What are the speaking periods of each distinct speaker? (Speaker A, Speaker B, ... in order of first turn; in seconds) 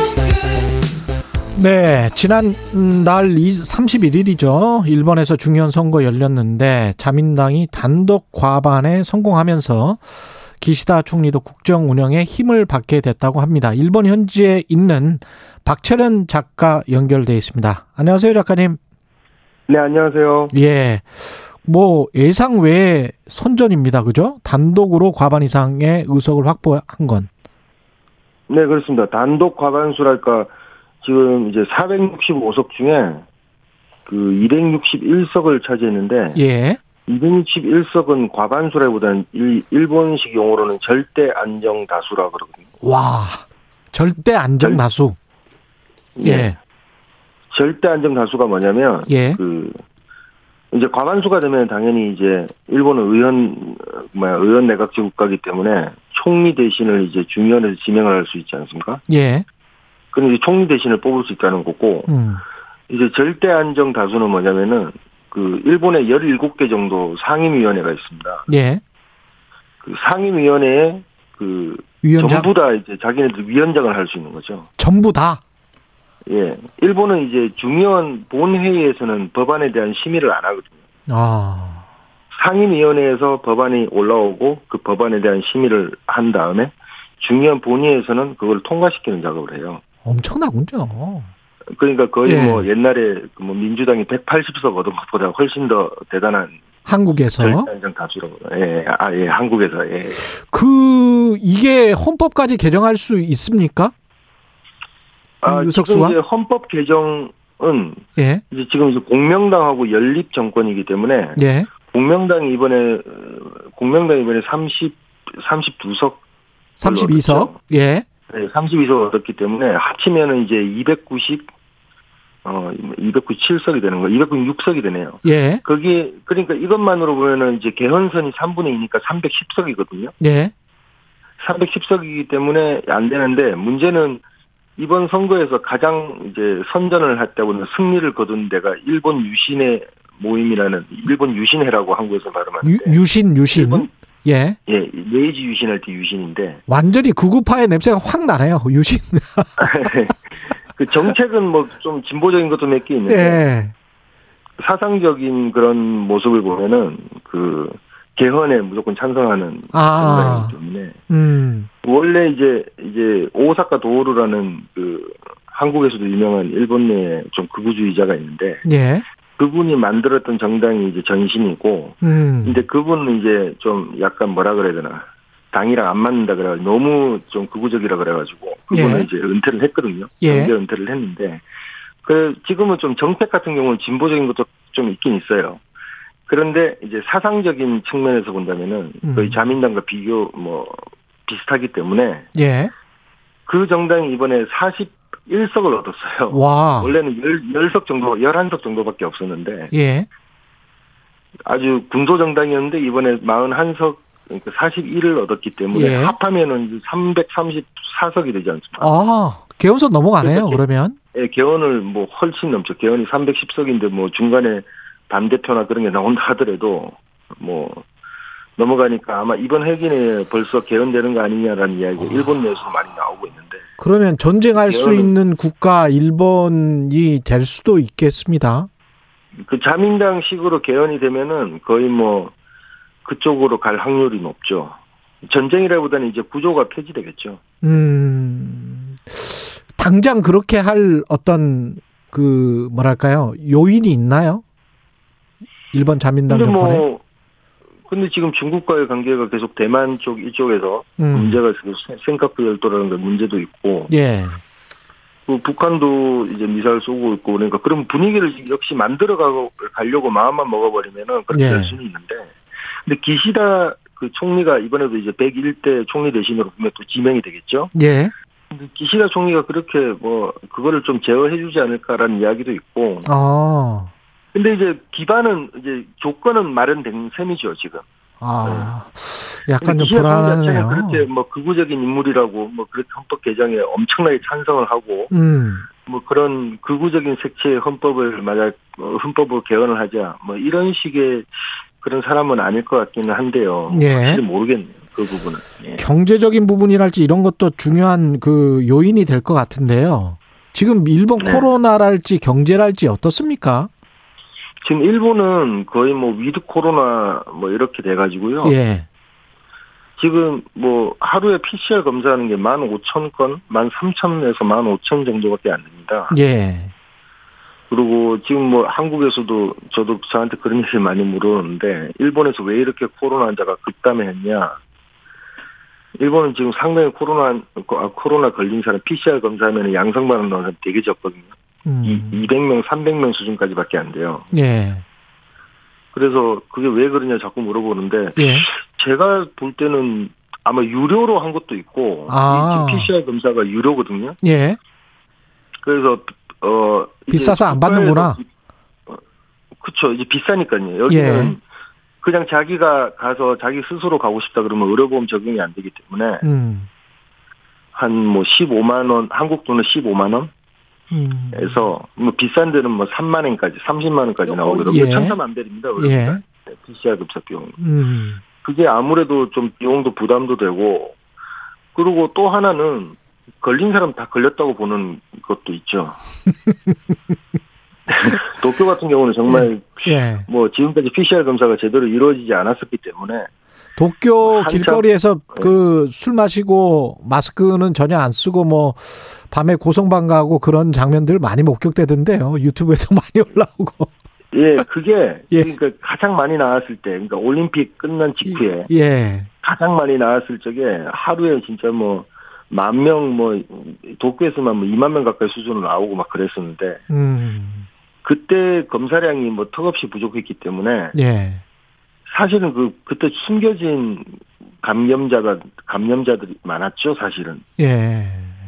Speaker A: 1.5-10.0, 10.6-18.8, 20.5-27.3, 36.3-36.8, 42.8-45.1, 46.2-46.5, 49.1-49.4, 59.1-59.4, 62.1-62.4, 68.5-68.8, 72.0-72.5, 74.8-75.4, 81.1-81.8, 90.0-91.3, 92.2-92.7, 96.8-97.7, 100.4-103.9, 105.5-106.2, 108.2-108.4, 111.3-111.7, 116.8-118.0, 125.2-125.6, 130.2-130.5, 142.6-144.6, 146.7-149.9, 153.1-153.7, 159.7-160.5, 161.1-161.7, 168.6-169.0, 172.0-172.6, 178.7-179.1, 180.2-180.5, 189.0-189.4, 192.3-192.7, 196.3-196.9, 199.7-200.1, 205.7-206.1, 208.8-211.0, 223.8-228.7, 237.6-244.4, 245.7-246.8, 251.0-251.4, 253.9-254.4, 261.3-261.8, 267.7-268.1, 273.0-273.9, 278.2-281.1, 285.1-285.6, 293.7-294.2, 295.8-303.7, 308.4-308.9, 316.1-316.7, 331.6-332.2, 334.3-334.8, 338.1-338.5, 342.1-342.9, 344.2-344.6, 347.1-348.2, 350.9-351.4, 356.2-356.7, 360.9-361.7, 364.3-365.2, 365.8-366.2, 367.6-368.2, 379.3-380.3, 383.8-393.9, 398.3-399.3, 406.9-407.7, 410.9-411.4, 417.6-418.4
Speaker B: 19.7-20.5, 28.5-30.5, 31.0-33.2, 34.1-36.4, 37.0-42.6, 46.1-46.5, 47.5-49.8, 50.7-59.0, 60.1-62.1, 62.9-68.5, 69.8-74.7, 76.3-80.7, 82.3-89.8, 91.7-96.5, 97.3-100.2, 105.4-116.2, 116.8-117.5, 118.3-121.5, 122.4-130.1, 131.4-134.2, 134.8-143.0, 143.5-143.9, 144.7-146.6, 149.6-153.4, 154.6-161.0, 161.8-168.6, 169.4-181.4, 182.0-185.6, 186.3-192.3, 193.5-199.7, 201.4-208.9, 210.2-217.8, 218.6-223.6, 224.6-225.2, 229.4-232.3, 233.0-237.4, 246.3-247.0, 247.9-253.9, 255.3-262.3, 262.8-267.7, 268.5-273.1, 274.3-277.8, 278.4-278.7, 279.6-285.1, 285.8-291.3, 291.8-295.8, 301.2-301.5, 304.6-308.6, 310.0-316.1, 317.7-324.6, 326.0-331.3, 331.8-334.3, 335.9-344.2, 345.6-348.2, 349.6-351.4, 352.0-356.2, 357.7-360.3, 361.3-367.6, 368.4-371.0, 371.7-376.0, 377.9-383.3, 384.2-385.5, 394.3-398.7, 399.4-406.8, 408.0-410.9, 412.1-417.4